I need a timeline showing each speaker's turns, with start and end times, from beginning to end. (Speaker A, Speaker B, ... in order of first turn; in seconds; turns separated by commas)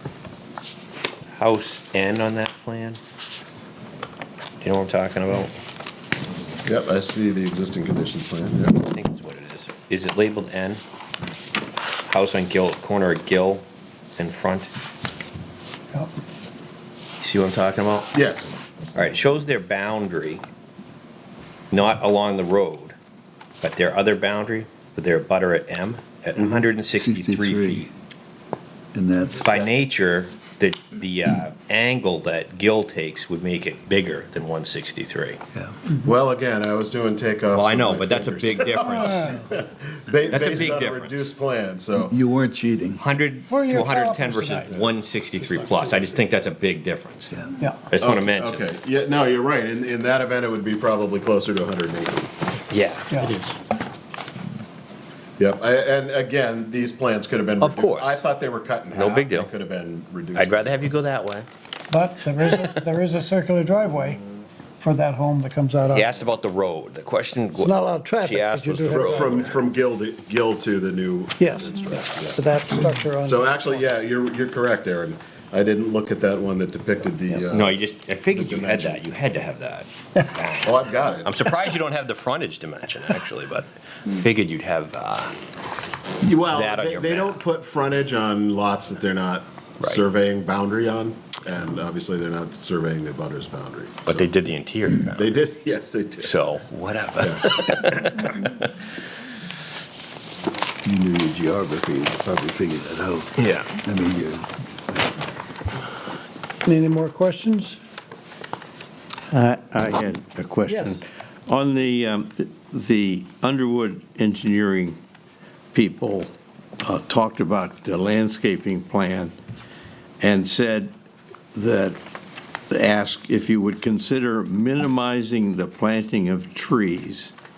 Speaker A: 1.4-3.0, Speaker A: 4.6-5.5, Speaker B: 6.6-8.8, Speaker A: 8.8-10.8, Speaker A: 12.1-13.7, Speaker A: 14.2-14.7, Speaker A: 17.2-18.1, Speaker B: 18.1-18.5, Speaker A: 18.9-20.4, Speaker A: 21.7-22.9, Speaker A: 23.6-27.9, Speaker C: 26.9-27.9, Speaker C: 28.9-29.7, Speaker A: 29.3-35.4, Speaker B: 35.9-42.2, Speaker A: 37.5-39.3, Speaker D: 39.0-39.3, Speaker A: 40.2-41.3, Speaker C: 42.0-43.0, Speaker A: 43.0-47.3, Speaker D: 43.5-44.9, Speaker D: 45.6-46.0, Speaker A: 47.9-48.6, Speaker B: 48.0-52.3, Speaker A: 52.7-53.5, Speaker D: 53.1-53.4, Speaker B: 55.4-60.9, Speaker A: 57.6-58.2, Speaker A: 58.9-59.5, Speaker A: 60.3-61.5, Speaker D: 61.9-64.2, Speaker D: 64.8-66.1, Speaker A: 65.9-69.5, Speaker D: 67.5-69.5, Speaker B: 68.9-72.4, Speaker D: 71.4-73.9, Speaker B: 73.2-79.0, Speaker A: 77.3-85.3, Speaker B: 80.6-81.4, Speaker B: 86.2-94.3, Speaker A: 86.5-87.4, Speaker A: 94.0-95.3, Speaker B: 95.1-96.4, Speaker A: 96.2-98.7, Speaker B: 97.2-97.5, Speaker C: 100.8-103.3, Speaker A: 103.4-103.8, Speaker C: 103.8-104.5, Speaker D: 106.6-107.8, Speaker E: 109.3-115.0, Speaker D: 110.7-111.0, Speaker E: 115.7-119.3, Speaker E: 120.2-120.9, Speaker E: 121.5-122.0, Speaker E: 122.7-127.3